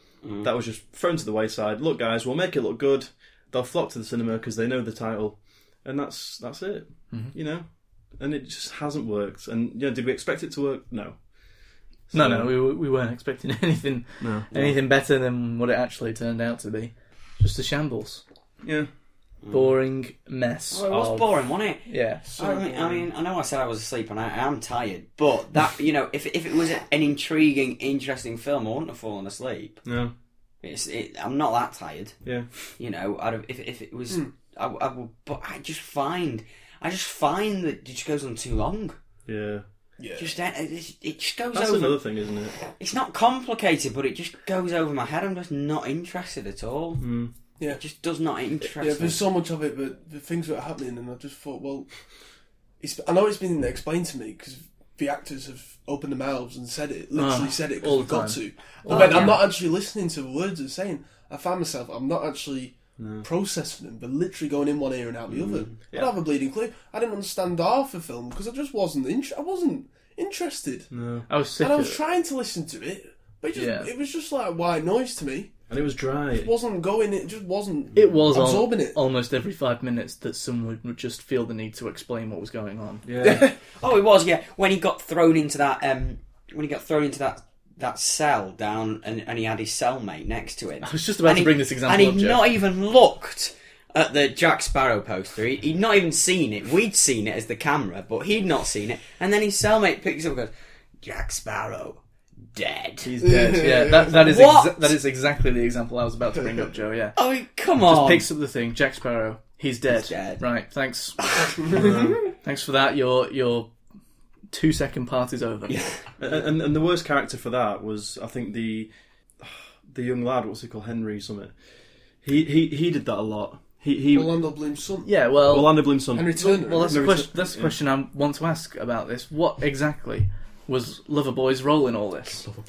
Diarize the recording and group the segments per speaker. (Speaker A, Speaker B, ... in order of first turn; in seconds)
Speaker A: 0.2-0.5, 19.4-19.8, 20.7-29.8, 30.6-32.1, 32.8-39.0, 40.2-42.0, 42.6-47.1, 47.7-49.2, 58.8-59.4, 65.3-65.8, 83.8-102.0, 102.5-103.2, 104.1-104.9, 107.2-108.3, 109.9-110.5, 111.2-111.5, 115.7-116.0
Speaker B: 0.4-12.5, 14.2-14.5, 18.6-18.9, 29.9-30.1, 39.3-39.7, 41.5-42.6, 47.0-47.3, 63.0-63.3, 65.9-66.2, 70.9-71.3, 75.7-76.5, 83.0-83.5, 111.7-112.3, 116.2-121.5, 122.2-124.4, 125.5-127.7
Speaker C: 12.1-18.2, 19.5-21.3, 21.9-22.2, 57.1-59.4, 71.3-72.0, 73.5-73.9, 78.0-83.0, 90.8-92.4, 103.0-107.2, 107.8-111.2, 112.4-113.7, 114.5-115.8, 125.0-132.5
Speaker D: 22.3-23.0, 40.0-40.3, 48.8-51.9, 52.8-70.9, 71.6-75.5, 76.3-79.0, 83.2-83.5, 103.2-104.1, 124.1-125.1, 126.1-127.0